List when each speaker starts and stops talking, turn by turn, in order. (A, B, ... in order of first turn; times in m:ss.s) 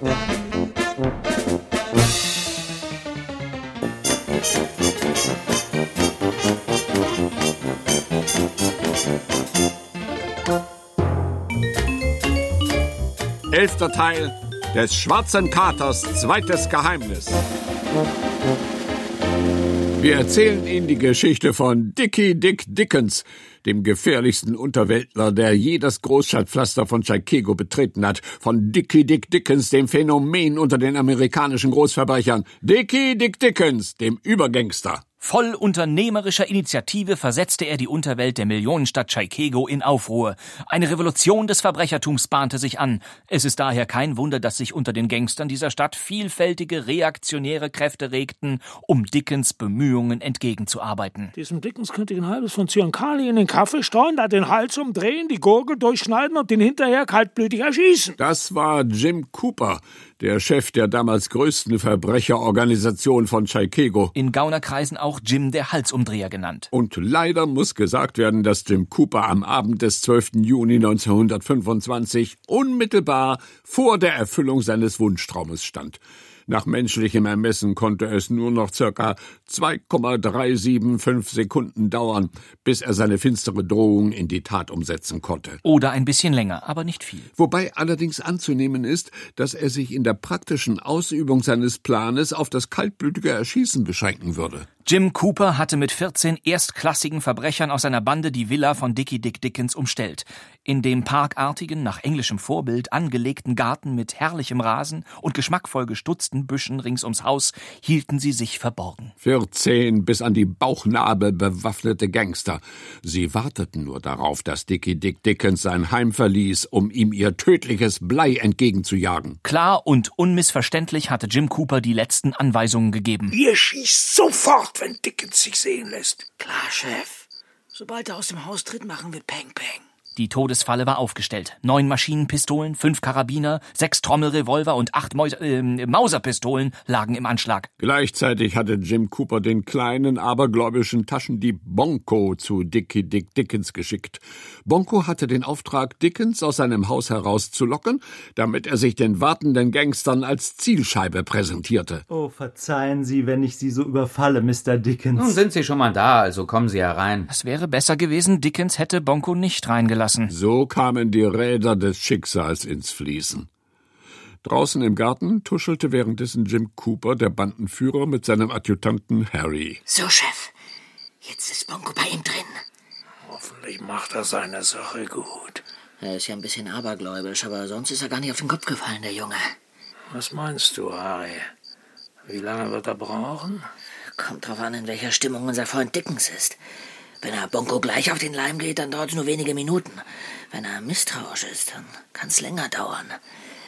0:13.5-0:17.4 A
0:20.0-0:35.0 A
0:35.2-0:51.3 B
0:51.4-0:58.2 C
0:58.2-1:04.1 A
1:04.1-1:06.7 B
1:06.7-1:25.6 A
1:25.6-1:27.3 B
1:27.4-1:34.7 A
1:34.8-1:49.1 B
1:49.2-1:59.4 A
1:59.4-2:03.3 B
2:03.3-2:06.3 C
2:06.4-2:07.2 D
2:07.7-2:09.8 D
2:10.2-2:17.7 B
2:17.8-2:32.0 A
2:32.1-2:35.4 E
2:35.1-2:37.3 F
2:37.3-2:40.3 B
2:40.3-2:43.5 A
2:44.4-2:49.8 A
2:49.9-2:50.5 D
2:51.2-2:52.6 D
2:53.2-2:55.6 C
2:56.0-2:59.4 D
3:00.1-3:01.5 C
3:02.2-3:03.6 C
3:04.2-3:06.6 D
3:07.2-3:13.2 D